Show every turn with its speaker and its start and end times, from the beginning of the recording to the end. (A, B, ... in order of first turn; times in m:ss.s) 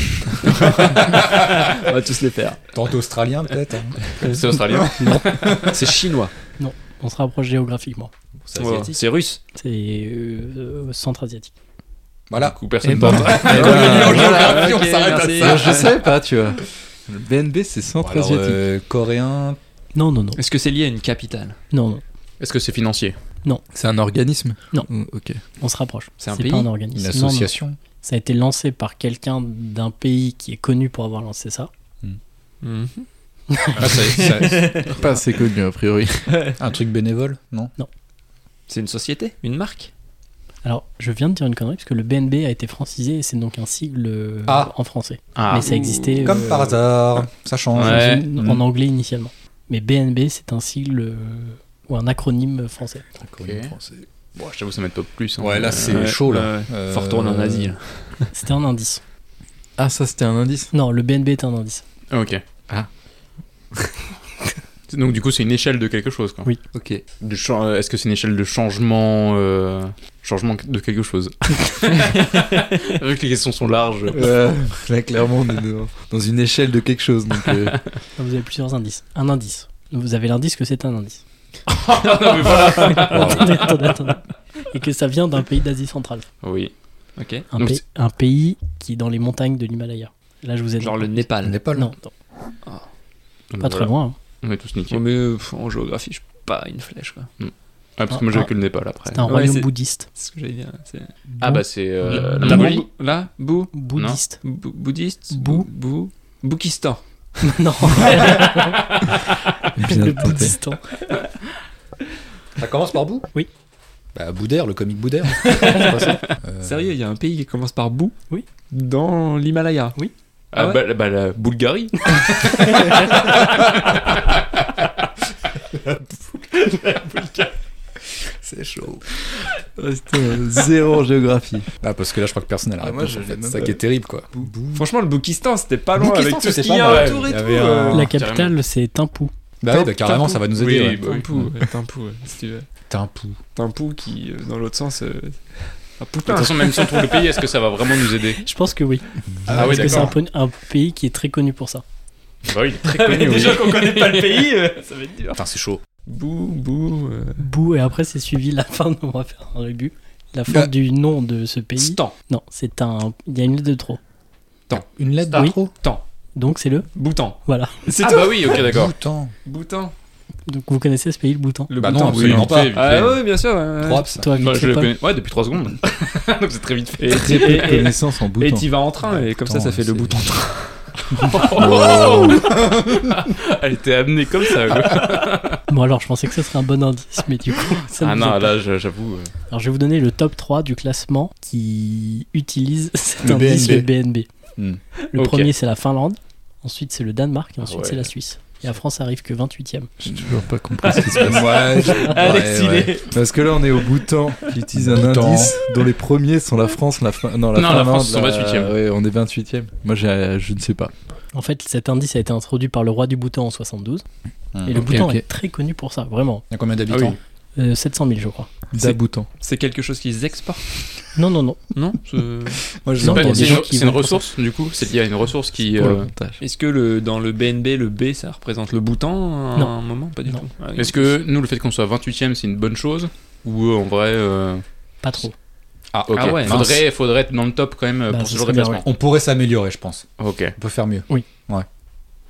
0:00.5-0:02.6 A
0:00.8-0:01.6 B
0:02.7-0:04.9 B
0:04.2-0:05.7 C
0:05.0-0:05.3 D
0:05.5-0:05.9 B
0:05.6-0:06.3 A
0:06.6-0:08.1 D
0:08.4-0:09.0 B
0:08.6-0:09.4 A
0:09.5-0:11.5 D
0:12.3-0:16.1 B
0:12.4-0:14.0 C
0:12.9-0:15.9 A
0:13.1-0:14.8 E
0:15.4-0:18.6 E
0:18.0-0:19.6 B
0:19.9-0:20.4 D
0:20.4-0:21.6 A
0:21.7-0:22.0 D
0:22.4-0:23.2 C
0:23.7-0:25.4 E
0:25.6-0:31.7 D
0:26.2-0:26.7 A
0:26.9-0:27.8 B
0:32.6-0:33.1 A
0:33.5-0:34.2 D
0:33.8-0:35.0 B
0:34.1-0:35.0 A
0:34.8-0:36.4 E
0:36.3-0:36.6 A
0:36.6-0:37.7 B
0:38.7-0:39.9 A
0:40.6-0:46.6 D
0:44.5-0:44.7 B
0:45.3-0:45.7 C
0:45.5-0:46.7 A
0:46.2-0:48.6 B
0:47.7-0:48.2 C
0:47.8-0:53.0 D
0:53.2-0:54.0 B
0:53.4-0:53.7 C
0:54.4-0:56.1 C
0:55.4-0:57.7 B
0:55.9-0:58.3 A
0:58.3-0:59.0 D
0:59.8-1:00.7 E
1:00.7-1:01.8 D
1:02.1-1:02.4 C
1:04.9-1:06.5 C
1:06.7-1:07.0 E
1:07.2-1:14.3 C
1:14.1-1:17.8 E
1:18.2-1:21.2 D
1:21.7-1:23.7 C
1:22.5-1:23.0 A
1:22.8-1:26.3 D
1:23.1-1:23.4 B
1:26.4-1:26.7 C
1:27.2-1:27.5 A
1:27.5-1:32.1 D
1:27.5-1:27.8 C
1:30.8-1:31.6 A
1:31.4-1:31.9 B
1:33.5-1:33.9 C
1:33.6-1:34.2 D
1:34.4-1:35.0 C
1:34.9-1:37.3 A
1:37.4-1:39.3 C
1:38.1-1:38.5 D
1:39.0-1:40.1 D
1:39.2-1:41.2 A
1:41.4-1:42.9 C
1:41.4-1:42.7 D
1:42.0-1:43.8 A
1:43.7-1:44.4 D
1:43.9-1:44.2 C
1:44.4-1:48.8 A
1:45.3-1:45.7 D
1:47.4-1:49.0 D
1:49.8-1:50.6 E
1:49.8-1:51.0 D
1:52.6-1:53.3 B
1:54.1-1:56.9 B
1:55.4-1:58.2 A
1:55.7-1:56.4 C
1:58.7-2:00.0 A
2:00.5-2:04.0 C
2:00.5-2:00.8 A
2:08.4-2:09.0 B
2:09.8-2:11.7 E
2:11.8-2:14.8 B
2:12.8-2:13.8 E
2:14.7-2:18.1 A
2:16.0-2:18.1 B
2:16.8-2:17.3 C
2:17.9-2:19.3 D
2:18.1-2:18.5 C
2:19.6-2:21.5 B
2:19.7-2:22.6 A
2:20.5-2:21.3 C
2:22.9-2:23.4 B
2:23.6-2:28.0 A
2:26.2-2:28.4 C
2:28.4-2:31.8 D
2:29.5-2:30.1 B
2:29.5-2:30.1 C
2:32.4-2:34.5 C
2:32.8-2:35.4 A
2:35.3-2:35.8 B
2:36.0-2:37.5 A
2:37.4-2:44.0 D
2:41.8-2:42.1 A
2:44.7-2:45.7 B
2:45.7-2:46.0 A
2:46.4-2:46.9 D
2:46.9-2:48.7 A
2:47.4-2:47.7 D
2:48.0-2:48.9 C
2:48.4-2:49.3 B
2:49.4-2:49.9 A
2:50.5-2:51.7 D
2:51.7-2:54.2 A
2:51.8-2:53.1 B
2:52.1-2:53.2 C
2:53.8-2:54.3 B
2:54.2-2:54.9 D
2:54.3-2:57.8 C
2:57.0-3:00.9 A
2:57.2-2:58.7 E
2:59.1-3:00.2 B
3:01.1-3:05.6 C
3:01.5-3:03.2 B
3:05.7-3:08.6 D
3:08.0-3:09.3 C
3:09.5-3:14.3 D
3:13.2-3:13.9 B
3:15.1-3:19.9 D
3:15.1-3:15.5 C
3:17.6-3:18.1 C
3:20.0-3:21.7 E
3:20.8-3:23.2 A
3:21.2-3:23.0 B
3:21.9-3:22.2 D
3:23.1-3:30.9 E
3:24.7-3:25.5 B
3:27.5-3:28.7 C
3:31.3-3:34.0 D
3:34.5-3:35.0 B
3:34.6-3:36.4 D
3:34.8-3:35.2 E
3:36.5-3:37.2 B
3:36.9-3:37.2 C
3:37.6-3:38.5 D
3:38.7-3:39.3 E
3:38.8-3:41.1 A
3:41.1-3:41.6 D
3:41.7-3:42.6 A
3:42.5-3:43.6 B
3:43.0-3:44.3 D
3:43.0-3:46.1 C
3:45.7-3:46.4 E
3:46.4-3:51.1 A
3:50.7-3:54.6 C
3:55.0-3:55.3 D
3:55.9-3:56.8 B
3:56.1-3:58.8 C
3:56.1-3:56.6 A
3:58.1-3:58.8 D
3:58.8-4:01.6 B
4:00.2-4:00.6 C